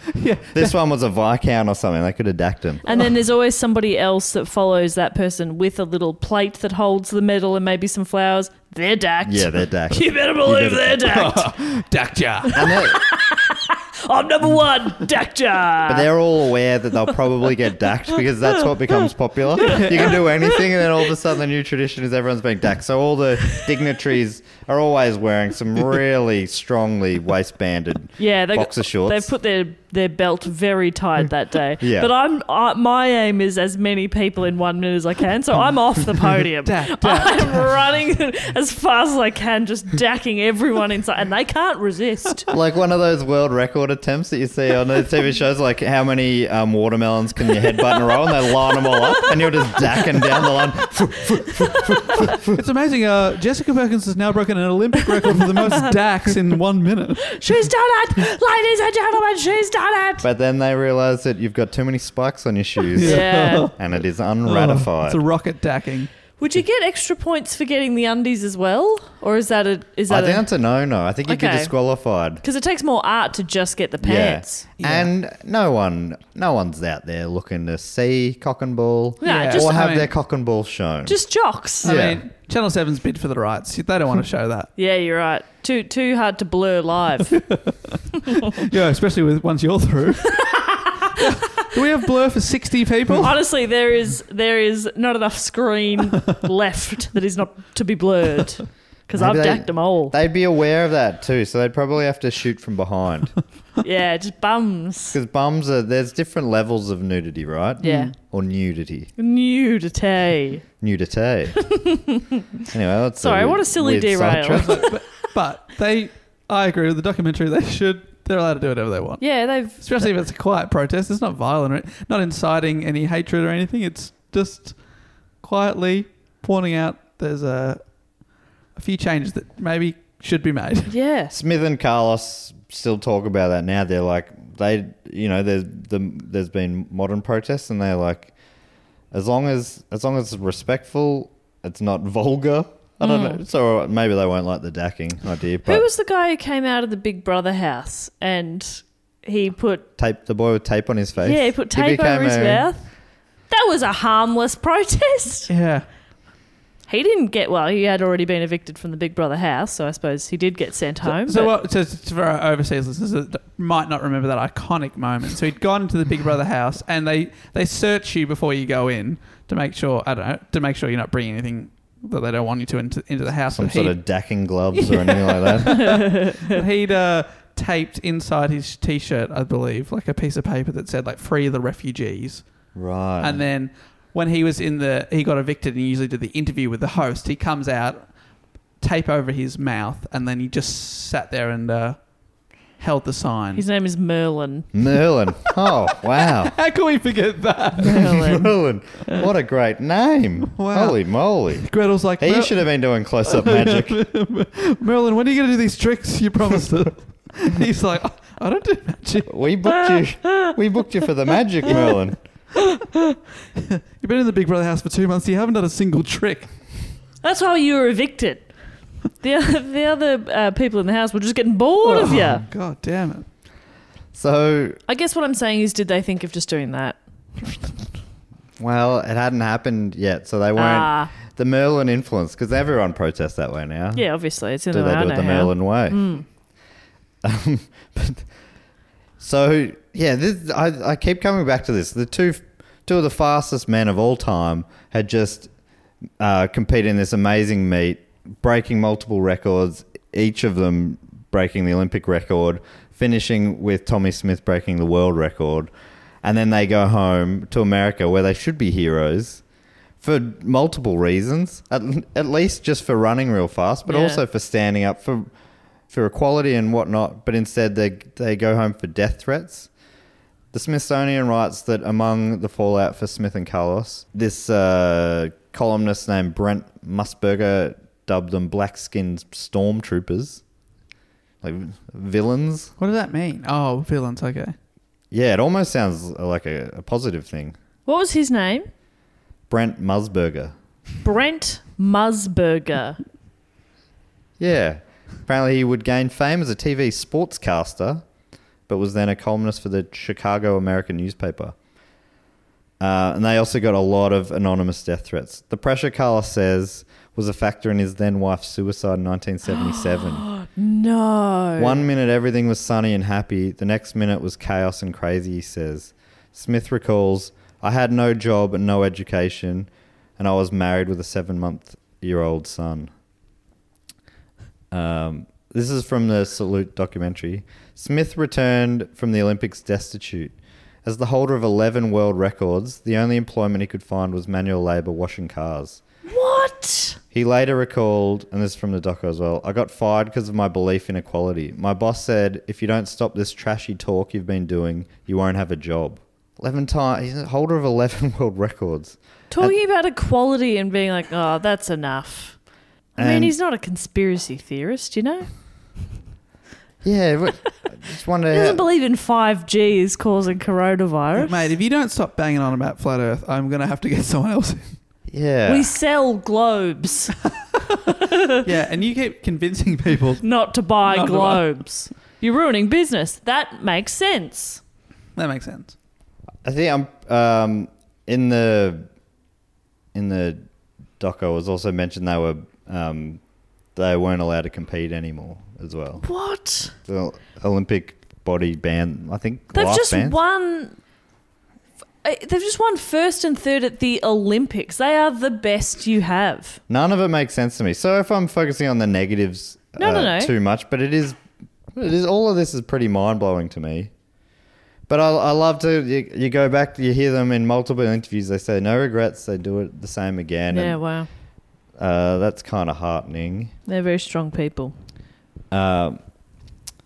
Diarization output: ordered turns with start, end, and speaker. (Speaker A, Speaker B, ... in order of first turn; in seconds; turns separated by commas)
Speaker A: 0.1-0.7, Speaker B: 0.5-2.8, Speaker C: 2.8-11.5, Speaker B: 9.2-11.1, Speaker A: 11.0-12.5, Speaker B: 12.5-13.0, Speaker C: 12.6-16.1, Speaker B: 15.9-29.3, Speaker A: 19.6-20.3, Speaker C: 19.6-20.6, Speaker C: 28.2-42.5, Speaker B: 31.8-32.1, Speaker A: 36.6-37.7, Speaker B: 42.5-52.6, Speaker A: 52.5-57.4, Speaker C: 55.3-55.9, Speaker C: 57.3-60.2, Speaker B: 60.2-65.2, Speaker A: 63.0-63.7, Speaker C: 63.0-63.7, Speaker A: 64.4-66.1, Speaker C: 66.4-70.5, Speaker B: 70.1-72.4, Speaker C: 71.3-71.7, Speaker C: 72.4-74.7, Speaker B: 74.0-81.2, Speaker A: 74.8-75.1, Speaker C: 79.2-79.7, Speaker A: 79.2-80.1, Speaker C: 81.0-81.9, Speaker B: 81.8-82.2, Speaker A: 81.8-84.7, Speaker C: 84.8-87.4, Speaker A: 87.4-87.9, Speaker A: 88.5-90.5, Speaker A: 91.2-93.3, Speaker C: 93.2-100.1, Speaker B: 99.1-103.3, Speaker C: 103.8-105.2, Speaker B: 105.1-109.1, Speaker A: 107.8-108.1, Speaker C: 107.8-108.1, Speaker C: 109.2-110.6, Speaker B: 110.8-111.6, Speaker C: 111.7-112.2, Speaker B: 112.7-114.8, Speaker C: 113.2-114.9, Speaker A: 114.6-124.8, Speaker C: 119.2-120.0, Speaker A: 125.4-127.8, Speaker A: 128.7-130.9, Speaker C: 130.9-131.3, Speaker B: 131.3-138.3, Speaker B: 139.1-145.8, Speaker C: 143.0-143.4, Speaker C: 145.7-149.9, Speaker B: 150.0-152.7, Speaker C: 151.2-152.9, Speaker C: 153.5-155.5, Speaker A: 155.5-155.9, Speaker C: 156.9-161.5, Speaker A: 161.0-174.0, Speaker B: 173.5-175.9, Speaker A: 174.8-182.4, Speaker C: 175.9-176.5, Speaker B: 182.7-183.4, Speaker A: 183.2-188.1, Speaker A: 188.8-192.0, Speaker A: 192.8-193.6, Speaker C: 193.5-194.7, Speaker B: 194.7-196.5, Speaker A: 196.3-198.3, Speaker B: 197.8-204.0, Speaker C: 197.9-198.6, Speaker A: 200.5-202.7, Speaker A: 203.2-209.3, Speaker B: 209.3-212.2, Speaker C: 209.9-210.5, Speaker A: 213.8-216.5, Speaker C: 217.2-218.5, Speaker C: 219.2-222.4, Speaker A: 221.8-223.2, Speaker B: 224.1-224.8, Speaker C: 224.9-227.0, Speaker B: 228.6-234.0, Speaker C: 230.6-231.1, Speaker C: 233.9-236.2, Speaker B: 234.7-236.1, Speaker B: 237.2-238.2, Speaker B: 239.2-245.5, Speaker B: 246.2-255.7, Speaker B: 256.2-259.4, Speaker B: 260.0-265.3, Speaker C: 263.9-264.2, Speaker B: 265.9-269.7, Speaker B: 270.5-280.4, Speaker B: 281.4-282.7, Speaker A: 282.8-284.6, Speaker B: 285.1-287.6, Speaker C: 287.9-288.7, Speaker B: 289.5-290.5, Speaker C: 291.0-293.0, Speaker B: 294.4-298.0, Speaker B: 298.7-301.5, Speaker B: 302.8-310.2, Speaker C: 309.5-311.8, Speaker B: 311.6-322.9, Speaker B: 324.7-330.3, Speaker B: 330.8-335.8, Speaker C: 336.1-337.0, Speaker B: 337.1-349.6, Speaker C: 349.3-352.4, Speaker C: 352.9-355.3, Speaker B: 353.0-353.3, Speaker B: 356.8-358.6, Speaker C: 358.3-361.5, Speaker A: 361.2-364.7, Speaker B: 365.1-365.7, Speaker C: 365.4-367.1, Speaker A: 368.4-370.2, Speaker C: 370.2-374.6, Speaker A: 370.9-371.4, Speaker A: 375.1-375.7, Speaker B: 376.4-378.9, Speaker B: 379.9-380.4, Speaker B: 381.0-383.2, Speaker B: 383.8-386.0, Speaker C: 386.0-386.7, Speaker B: 386.8-390.2, Speaker C: 389.5-390.8, Speaker C: 392.0-396.6, Speaker B: 396.7-401.2, Speaker C: 399.8-400.3, Speaker B: 401.8-403.9, Speaker B: 404.9-410.8, Speaker C: 410.5-411.1, Speaker B: 411.8-413.5, Speaker C: 413.7-414.7, Speaker B: 415.5-416.0